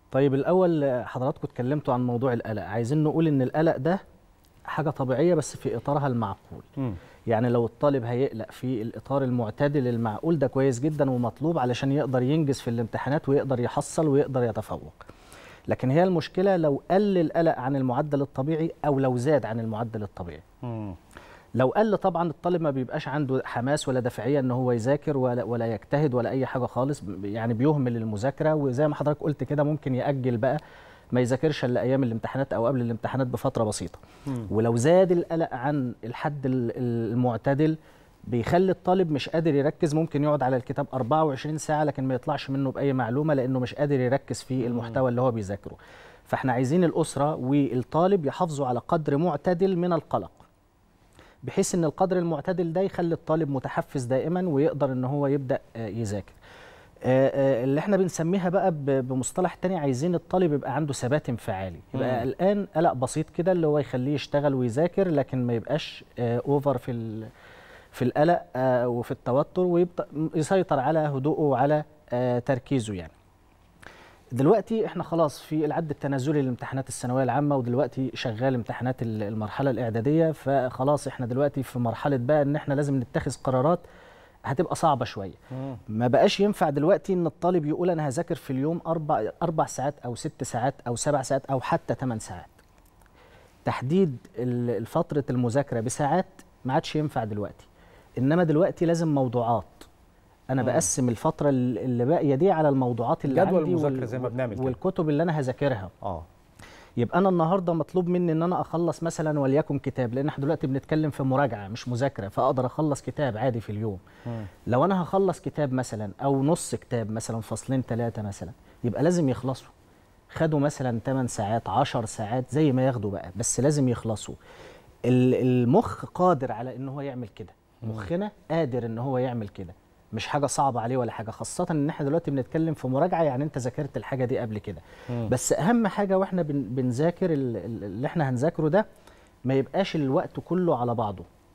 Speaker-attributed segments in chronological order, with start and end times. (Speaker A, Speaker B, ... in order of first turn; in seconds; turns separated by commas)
Speaker A: 0.1-4.0, Speaker A: 4.7-6.7, Speaker A: 7.3-15.0, Speaker A: 15.7-20.4, Speaker B: 20.6-21.0, Speaker A: 21.6-30.6, Speaker A: 31.1-37.8, Speaker A: 38.3-50.4, Speaker B: 44.7-45.0, Speaker A: 51.4-56.4, Speaker A: 57.0-67.3, Speaker B: 62.0-62.2, Speaker A: 67.9-73.1, Speaker A: 74.3-83.8, Speaker A: 84.5-92.6, Speaker A: 93.7-97.7, Speaker A: 98.2-99.9, Speaker A: 100.5-105.9, Speaker B: 100.6-100.9, Speaker B: 103.3-104.8, Speaker A: 107.0-114.0, Speaker A: 114.7-119.7, Speaker A: 120.3-124.4, Speaker A: 125.1-138.8, Speaker A: 139.5-141.2